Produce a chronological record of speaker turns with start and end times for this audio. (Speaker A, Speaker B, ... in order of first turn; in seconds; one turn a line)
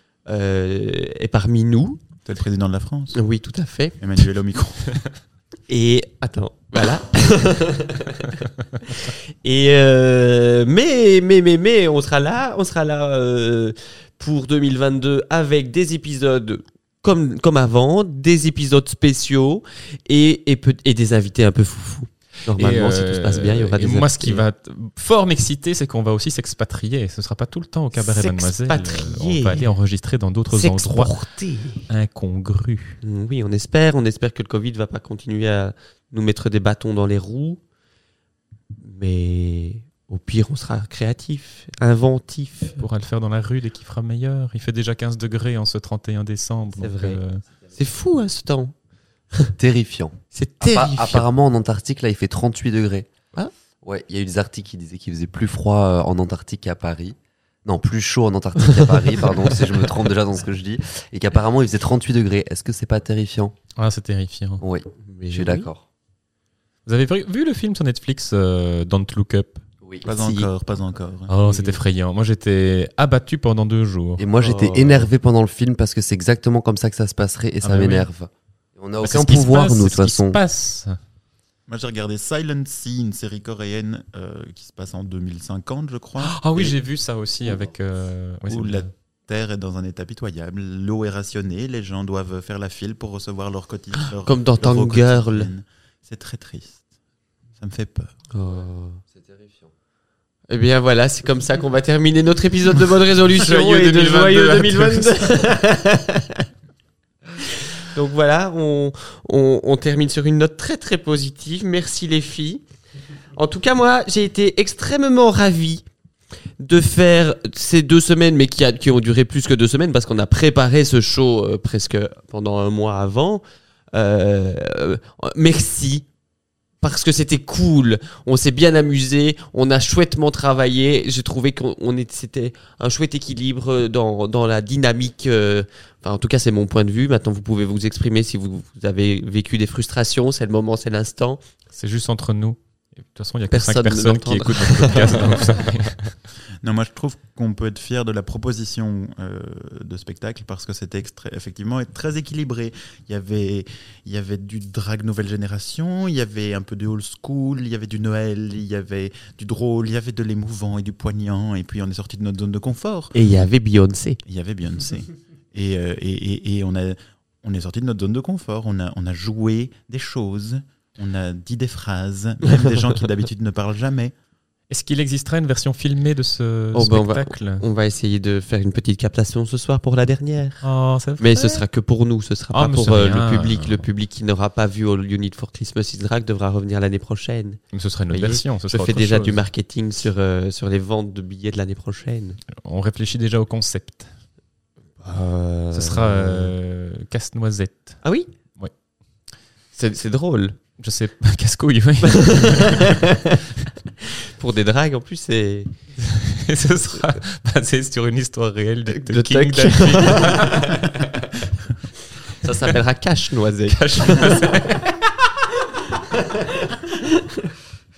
Speaker A: 0.3-2.0
Speaker B: 2.2-3.2
Speaker A: 3.1-4.0
Speaker B: 4.0-5.0
Speaker A: 5.7-24.4
Speaker C: 22.6-31.1
Speaker A: 27.9-29.7
Speaker A: 30.5-31.8
Speaker C: 31.9-33.0
Speaker A: 33.0-37.6
Speaker A: 38.8-42.8
Speaker C: 42.8-47.4
Speaker A: 46.8-47.2
Speaker A: 47.7-48.7
Speaker D: 49.6-53.1
Speaker A: 50.3-51.3
Speaker D: 53.8-63.5
Speaker A: 58.6-59.9
Speaker C: 63.8-64.6
Speaker D: 64.6-65.8
Speaker A: 65.1-65.7
Speaker C: 66.9-69.7
Speaker A: 70.0-70.5
Speaker B: 70.0-71.3
Speaker C: 71.3-74.2
Speaker A: 71.4-71.8
Speaker D: 74.2-80.4
Speaker A: 74.4-75.0
Speaker C: 77.6-78.1
Speaker C: 79.0-81.0
Speaker B: 81.7-86.8
Speaker C: 86.2-88.9
Speaker B: 88.5-96.8
Speaker A: 94.2-95.5
Speaker B: 97.6-98.1
Speaker A: 98.3-99.0
Speaker D: 99.1-99.7
Speaker A: 100.5-106.5
Speaker C: 103.3-105.2
Speaker A: 107.4-112.6
Speaker A: 113.4-115.8
Speaker A: 116.6-123.4
Speaker A: 123.9-126.0
Speaker A: 126.8-141.4
Speaker C: 141.7-146.1
Speaker A: 143.5-145.7
Speaker B: 146.6-163.1
Speaker A: 163.1-164.2
Speaker B: 164.3-174.1
Speaker A: 172.5-172.8
Speaker C: 174.7-177.7
Speaker A: 176.7-180.7
Speaker C: 180.6-181.6
Speaker A: 181.2-187.6
Speaker C: 182.5-183.8
Speaker C: 187.7-189.4
Speaker A: 188.1-192.4
Speaker C: 192.5-194.1
Speaker A: 195.0-196.5
Speaker C: 195.7-198.0
Speaker A: 199.8-200.6
Speaker C: 200.8-203.0
Speaker A: 202.0-203.4
Speaker A: 204.0-205.7
Speaker C: 206.0-210.9
Speaker A: 208.9-211.1
Speaker A: 212.4-214.6
Speaker C: 213.7-214.9
Speaker A: 215.9-217.5